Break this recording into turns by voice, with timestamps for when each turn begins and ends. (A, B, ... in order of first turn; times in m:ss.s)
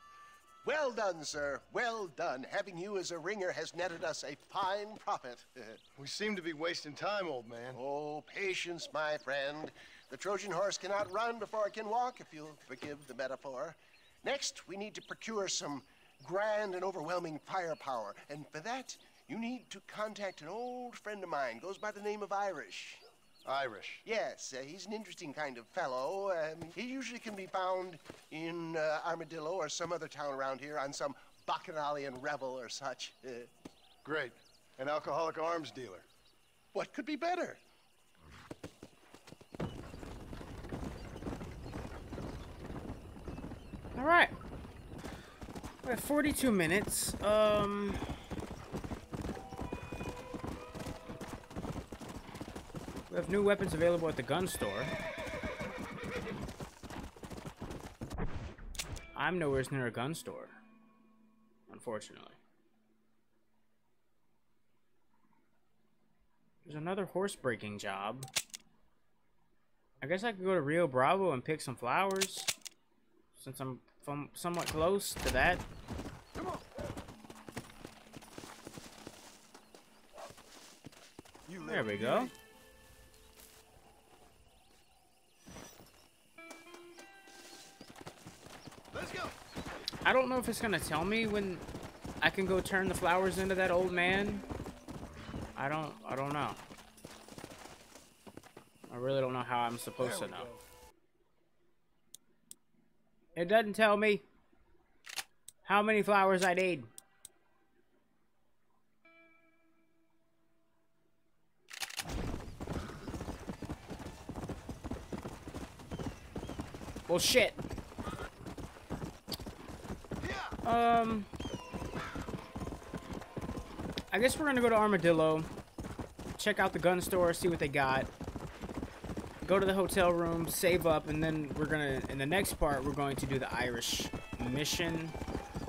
0:00.6-0:05.8 A
0:06.0-0:07.8 B
0:07.7-0:23.0 A
0:23.4-0:24.0 B
0:24.0-0:33.5 A
0:34.0-0:36.0 B
0:36.7-0:37.6 A
0:44.0-0:44.3 C
0:45.8-0:48.0 C
0:53.1-0:54.9 C
0:59.1-1:00.6 C
1:01.7-1:02.4 C
1:06.6-1:08.3 C
1:10.0-1:12.5 C
1:13.3-1:15.6 C
1:16.3-1:16.6 B
1:21.4-1:22.3 B
1:21.6-1:22.3 C
1:28.9-1:29.4 B
1:30.0-1:31.6 C
1:32.2-1:34.4 C
1:35.6-1:36.6 C
1:38.9-1:40.5 C
1:40.0-1:40.6 B
1:43.4-1:44.2 C
1:45.6-1:46.9 C
1:57.1-1:57.6 C
2:00.2-2:00.6 B
2:00.6-2:01.3 C
2:04.1-2:05.5 C
2:06.4-2:08.1 C
2:09.4-2:15.2 C